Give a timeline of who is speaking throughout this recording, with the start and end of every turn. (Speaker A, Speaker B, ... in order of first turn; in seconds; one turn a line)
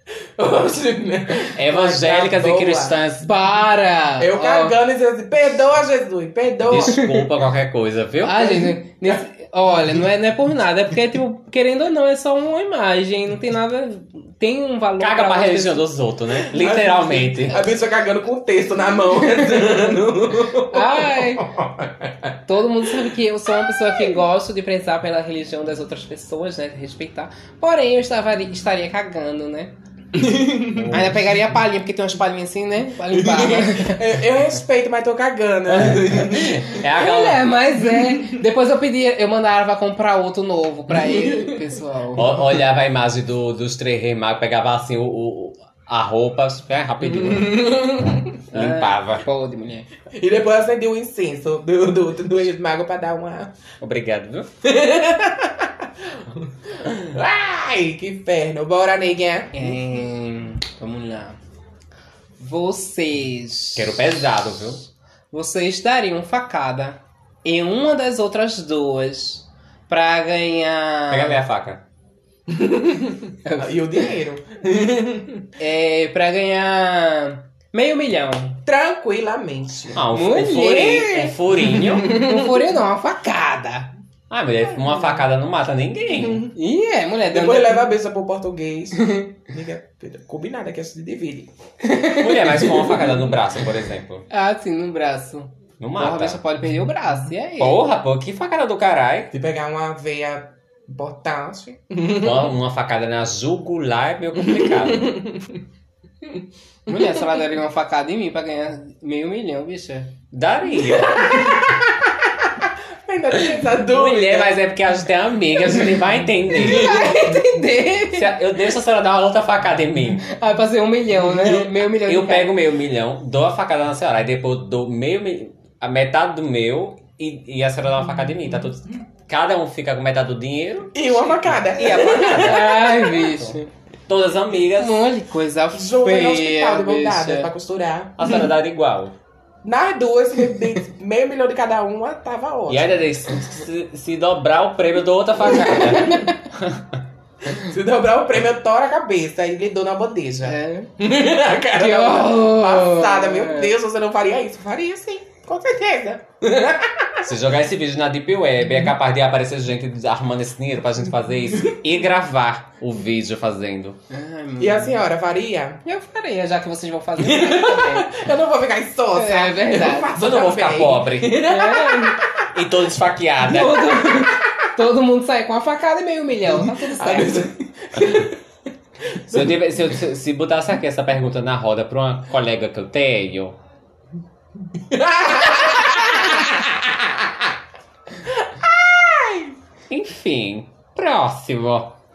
Speaker A: 0.4-3.0
Speaker B: 1.5-3.3
Speaker C: 3.2-4.8
Speaker A: 4.2-7.1
Speaker B: 6.7-8.6
Speaker C: 6.8-7.2
Speaker C: 8.2-15.8
Speaker B: 15.0-17.7
Speaker A: 16.5-24.2
Speaker C: 20.7-21.5
Speaker C: 22.5-29.7
Speaker A: 30.1-31.0
Speaker B: 30.7-31.3
Speaker C: 30.9-34.1
Speaker A: 33.1-36.8
Speaker B: 35.7-37.5
Speaker C: 36.8-42.3
Speaker A: 38.0-38.2
Speaker A: 41.0-41.6
Speaker B: 42.1-47.8
Speaker A: 47.1-48.3
Speaker B: 48.5-49.2
Speaker C: 48.5-49.9
Speaker A: 50.1-53.5
Speaker B: 53.8-54.5
Speaker A: 54.6-59.8
Speaker C: 59.5-61.4
Speaker C: 62.4-64.1
Speaker B: 63.8-64.8
Speaker C: 65.3-71.4
Speaker B: 71.1-71.8
Speaker A: 72.5-75.5
Speaker C: 73.5-74.0
Speaker C: 75.6-78.6
Speaker A: 78.7-80.0
Speaker B: 79.9-82.1
Speaker C: 80.1-83.9
Speaker A: 81.8-82.6
Speaker B: 84.3-86.5
Speaker C: 86.5-87.9
Speaker A: 87.3-91.5
Speaker C: 89.0-89.4
Speaker C: 91.8-92.9
Speaker B: 92.0-94.2
Speaker C: 94.3-97.8
Speaker B: 95.8-96.4
Speaker B: 97.6-99.3
Speaker A: 99.3-102.5
Speaker B: 102.1-105.2
Speaker A: 104.4-105.6
Speaker C: 106.9-110.1
Speaker B: 110.3-111.6
Speaker A: 111.0-114.6
Speaker B: 113.5-117.1
Speaker A: 115.7-116.0
Speaker C: 116.5-118.3
Speaker A: 116.6-117.5
Speaker B: 118.1-120.3
Speaker C: 120.2-122.5
Speaker B: 121.5-135.1
Speaker A: 130.9-132.7
Speaker C: 132.2-133.7
Speaker C: 134.7-137.5
Speaker A: 135.7-138.4
Speaker B: 138.2-139.1
Speaker A: 139.6-143.3
Speaker B: 142.7-146.9
Speaker A: 145.6-146.2
Speaker C: 146.0-146.3
Speaker A: 147.5-157.3
Speaker C: 150.4-150.9
Speaker C: 151.8-153.7
Speaker B: 157.2-164.0
Speaker C: 164.1-165.0
Speaker A: 164.6-165.8
Speaker C: 165.8-168.1
Speaker A: 167.2-172.4
Speaker C: 169.2-170.1
Speaker B: 170.2-171.5
Speaker C: 171.3-172.2
Speaker B: 172.5-174.2
Speaker C: 173.4-177.4
Speaker A: 174.2-174.6
Speaker A: 176.5-178.4
Speaker A: 179.2-179.5
Speaker B: 179.3-183.6
Speaker A: 184.8-187.5
Speaker A: 188.2-189.6
Speaker B: 189.9-192.0